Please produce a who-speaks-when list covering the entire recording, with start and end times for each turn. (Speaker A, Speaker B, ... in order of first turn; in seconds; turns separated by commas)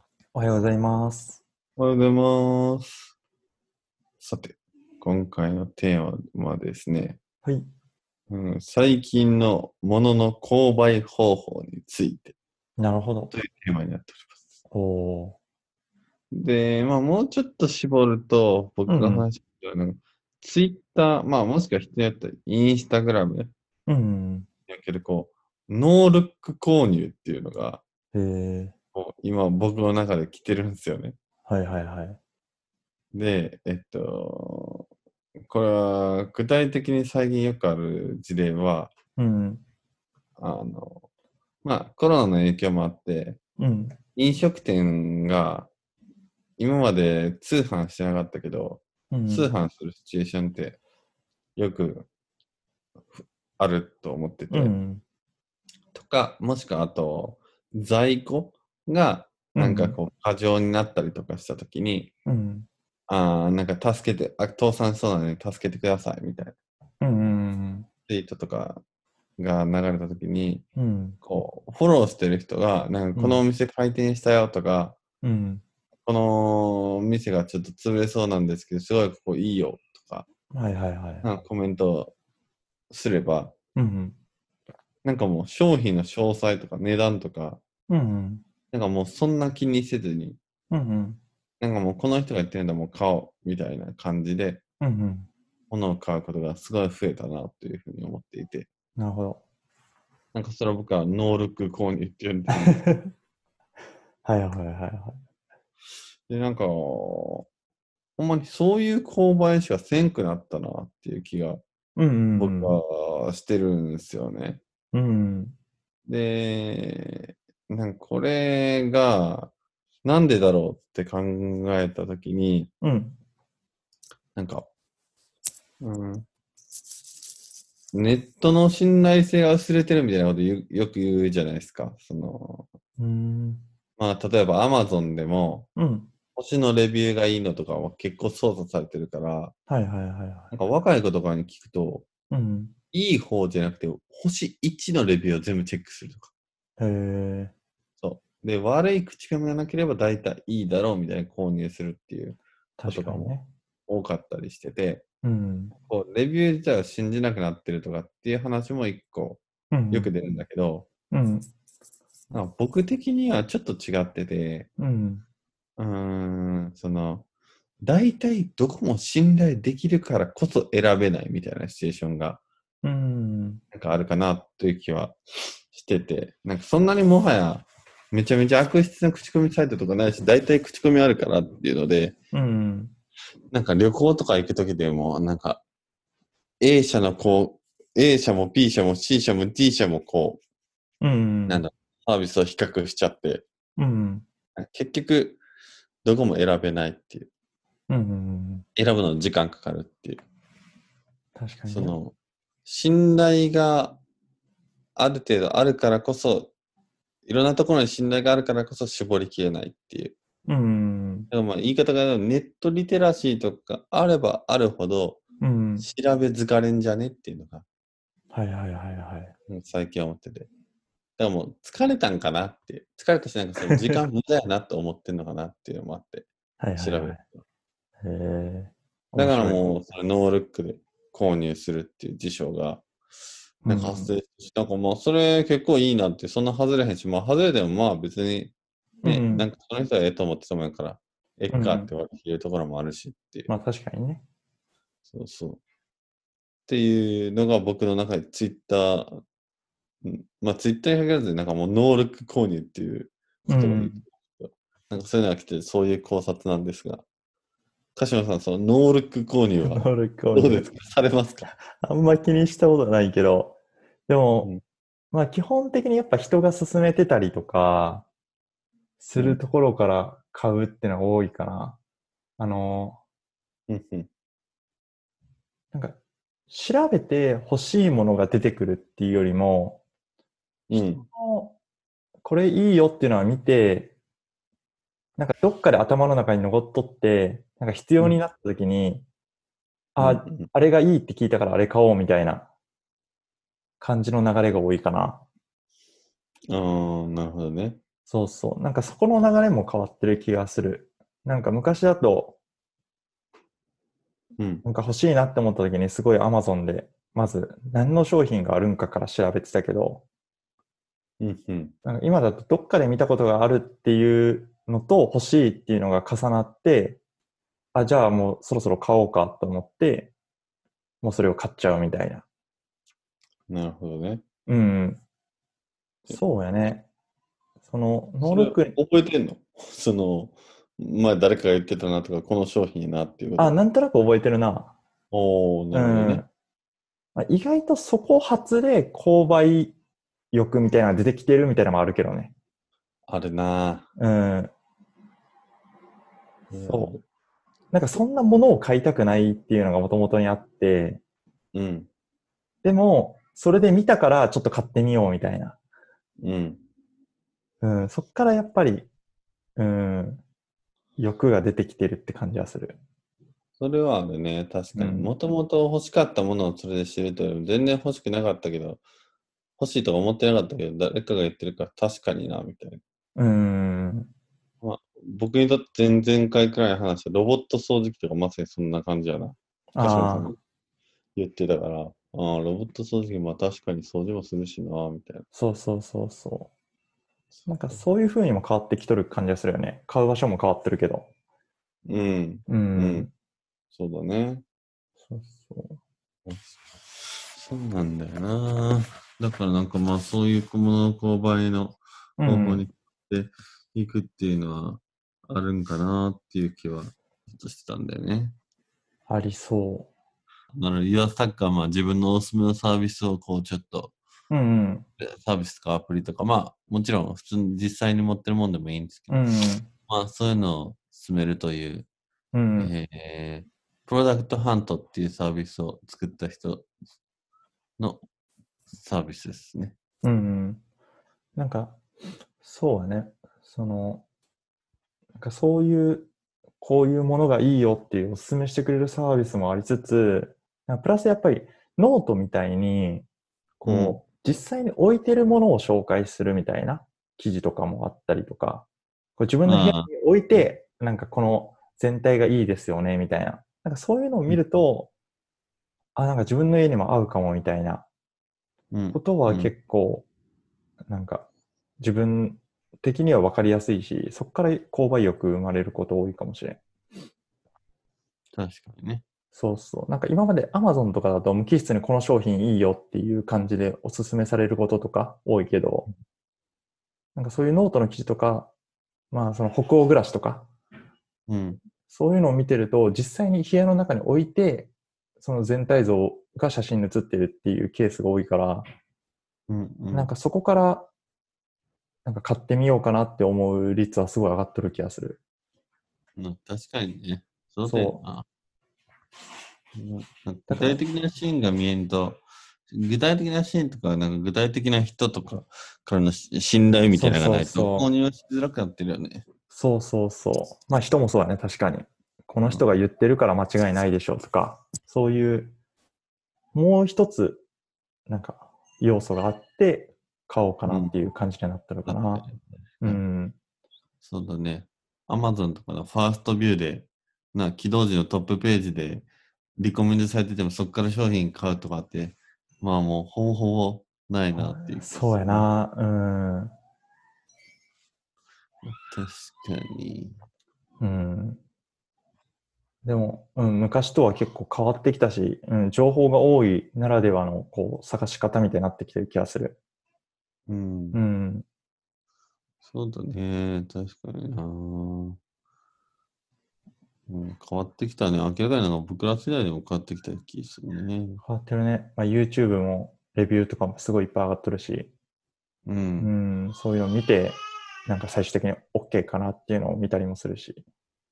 Speaker A: 0.3-1.4, Speaker B: 1.8-3.1, Speaker B: 4.2-7.2, Speaker A: 7.4-7.7, Speaker B: 8.3-12.3, Speaker A: 12.8-13.3, Speaker B: 13.3-14.4, Speaker A: 14.7-15.4, Speaker B: 16.3-23.5, Speaker A: 18.9-19.3, Speaker A: 23.9-24.5, Speaker B: 24.7-27.8, Speaker A: 28.1-28.7, Speaker B: 28.9-31.1, Speaker A: 31.5-32.2, Speaker B: 33.1-34.9, Speaker B: 35.4-38.9, Speaker A: 39.2-39.6, Speaker B: 40.4-41.0, Speaker B: 41.6-43.4, Speaker A: 43.6-44.0, Speaker B: 44.1-45.7, Speaker B: 46.6-50.8, Speaker A: 49.1-49.5, Speaker B: 51.5-52.1, Speaker B: 53.2-54.7, Speaker A: 54.5-55.0, Speaker B: 55.9-62.1, Speaker A: 59.5-60.0, Speaker A: 62.2-62.7, Speaker B: 63.1-66.5, Speaker A: 67.0-67.9, Speaker B: 68.1-68.8, Speaker B: 69.4-70.7, Speaker A: 70.8-71.2, Speaker B: 71.2-75.0, Speaker A: 73.2-73.4, Speaker A: 75.2-75.6, Speaker B: 76.0-80.3, Speaker A: 80.5-81.2, Speaker B: 81.2-82.1, Speaker B: 82.9-83.5, Speaker A: 83.8-84.2, Speaker B: 85.0-87.6, Speaker A: 87.9-88.4, Speaker B: 88.7-90.4, Speaker A: 90.7-91.2, Speaker B: 91.6-94.6, Speaker A: 94.8-95.3, Speaker B: 95.7-98.7, Speaker A: 99.0-99.4, Speaker B: 100.3-102.8, Speaker A: 102.6-103.1, Speaker A: 104.2-105.2, Speaker B: 106.3-107.5, Speaker B: 108.2-111.6, Speaker A: 112.0-112.8, Speaker B: 112.4-114.6, Speaker A: 114.9-115.5, Speaker B: 116.1-119.5, Speaker B: 120.0-122.7, Speaker A: 122.8-123.2, Speaker B: 124.3-124.7, Speaker B: 125.8-126.2, Speaker B: 127.9-132.7, Speaker A: 133.0-133.6, Speaker B: 134.0-135.7, Speaker A: 135.8-136.1, Speaker B: 136.3-139.5, Speaker A: 139.7-140.5, Speaker B: 140.5-142.1, Speaker A: 142.3-142.7, Speaker B: 142.9-146.3, Speaker A: 146.8-147.5, Speaker B: 148.0-153.3, Speaker A: 152.8-153.5, Speaker B: 153.9-155.0, Speaker A: 155.2-155.7, Speaker B: 155.8-160.9, Speaker A: 159.7-160.1, Speaker A: 161.1-161.5, Speaker B: 162.3-164.7, Speaker A: 164.8-165.2, Speaker B: 165.8-167.2, Speaker B: 167.8-172.4, Speaker A: 172.8-173.6, Speaker B: 173.7-175.2, Speaker B: 175.7-182.2, Speaker A: 182.3-182.9, Speaker B: 183.5-185.6, Speaker B: 186.6-190.4, Speaker A: 191.0-191.6, Speaker B: 191.5-193.4, Speaker A: 193.8-194.2, Speaker B: 194.6-195.4, Speaker B: 196.0-197.3, Speaker A: 197.9-198.6, Speaker B: 198.8-200.2, Speaker A: 201.3-201.9, Speaker B: 201.7-202.1, Speaker B: 202.6-204.0, Speaker B: 204.9-206.5, Speaker B: 207.2-210.1, Speaker A: 210.5-211.3, Speaker B: 211.3-215.2, Speaker A: 215.4-215.8, Speaker B: 215.8-217.6, Speaker A: 218.3-219.3, Speaker B: 219.5-220.5, Speaker B: 221.2-227.4, Speaker A: 223.7-224.0, Speaker A: 226.6-227.2, Speaker A: 228.0-229.7, Speaker B: 229.2-232.8, Speaker A: 233.6-234.1, Speaker B: 233.6-238.5, Speaker A: 239.0-239.5, Speaker B: 239.0-243.5, Speaker A: 241.5-241.9, Speaker A: 243.5-244.2, Speaker B: 245.1-245.6, Speaker B: 246.7-249.2, Speaker B: 250.0-257.0, Speaker A: 253.5-254.0, Speaker B: 257.9-261.5, Speaker A: 259.6-260.7, Speaker A: 261.6-264.5, Speaker A: 265.1-268.1, Speaker A: 269.0-271.8, Speaker B: 269.1-269.4, Speaker A: 272.4-273.0, Speaker B: 273.7-274.1, Speaker A: 275.7-279.8, Speaker B: 280.7-281.1, Speaker A: 280.7-281.6, Speaker A: 282.2-283.9, Speaker A: 285.2-289.1, Speaker A: 289.9-292.5, Speaker B: 290.0-290.5, Speaker A: 293.8-295.2, Speaker B: 296.5-297.8, Speaker A: 298.1-302.4, Speaker B: 304.4-304.6, Speaker A: 304.6-310.0, Speaker B: 311.2-311.7, Speaker A: 311.8-317.0, Speaker A: 317.7-320.1, Speaker A: 321.0-322.2, Speaker B: 323.5-324.2, Speaker A: 324.5-325.0, Speaker A: 326.1-326.9, Speaker A: 327.6-328.8, Speaker B: 328.2-333.6, Speaker A: 333.4-334.7, Speaker B: 335.1-336.2, Speaker A: 335.7-336.3, Speaker A: 337.1-339.7, Speaker A: 340.3-342.3, Speaker B: 343.1-343.9, Speaker A: 344.0-344.5, Speaker B: 346.5-347.0, Speaker A: 346.6-346.9, Speaker A: 347.7-351.0, Speaker B: 351.5-351.9, Speaker A: 352.6-355.6, Speaker B: 356.2-356.6, Speaker A: 357.6-358.9, Speaker A: 359.6-360.2, Speaker A: 361.0-362.8, Speaker B: 363.6-368.8, Speaker A: 364.7-365.1, Speaker B: 369.6-372.8, Speaker A: 373.1-374.1, Speaker B: 374.6-380.4, Speaker A: 379.7-380.3, Speaker B: 381.1-385.2, Speaker A: 385.3-386.5, Speaker B: 387.3-387.8, Speaker A: 387.5-391.1, Speaker B: 391.9-393.1, Speaker A: 392.5-393.1, Speaker B: 393.7-394.4, Speaker A: 395.1-395.8, Speaker B: 396.2-396.8, Speaker B: 397.3-408.4, Speaker A: 402.2-402.6, Speaker A: 409.1-409.9, Speaker B: 410.5-413.9, Speaker A: 414.3-414.9, Speaker B: 415.0-419.2, Speaker A: 419.1-419.7, Speaker B: 419.9-421.9, Speaker A: 422.3-422.7, Speaker B: 422.6-426.7, Speaker B: 428.7-429.7, Speaker A: 430.0-430.6, Speaker A: 431.4-431.8, Speaker A: 432.4-434.1, Speaker A: 435.2-436.1, Speaker A: 436.6-443.1, Speaker A: 443.6-454.9, Speaker B: 443.6-444.0, Speaker B: 449.4-449.9, Speaker A: 455.9-457.9, Speaker B: 458.7-459.5, Speaker A: 458.9-460.1, Speaker A: 460.9-461.3, Speaker A: 461.8-466.6, Speaker B: 468.3-469.0, Speaker A: 469.3-475.9, Speaker A: 477.1-478.5, Speaker A: 479.1-480.5, Speaker B: 481.3-481.6, Speaker A: 481.9-488.7, Speaker B: 489.5-490.1, Speaker A: 489.9-490.9, Speaker A: 492.0-495.2, Speaker B: 496.2-498.2, Speaker A: 497.6-498.0, Speaker B: 499.8-509.3, Speaker A: 500.5-500.8, Speaker A: 506.9-507.9, Speaker A: 509.5-515.5, Speaker A: 516.5-517.4, Speaker A: 518.1-522.2, Speaker B: 520.6-520.9, Speaker B: 521.9-523.0, Speaker A: 522.8-523.4, Speaker B: 524.0-529.1, Speaker B: 529.6-535.5, Speaker A: 534.3-536.5, Speaker B: 538.6-540.1, Speaker A: 540.8-541.4, Speaker A: 542.8-549.6, Speaker B: 550.5-551.0, Speaker A: 550.9-551.4, Speaker B: 552.6-555.2, Speaker B: 557.1-561.2, Speaker A: 561.2-564.9, Speaker B: 565.6-566.1, Speaker A: 566.0-570.6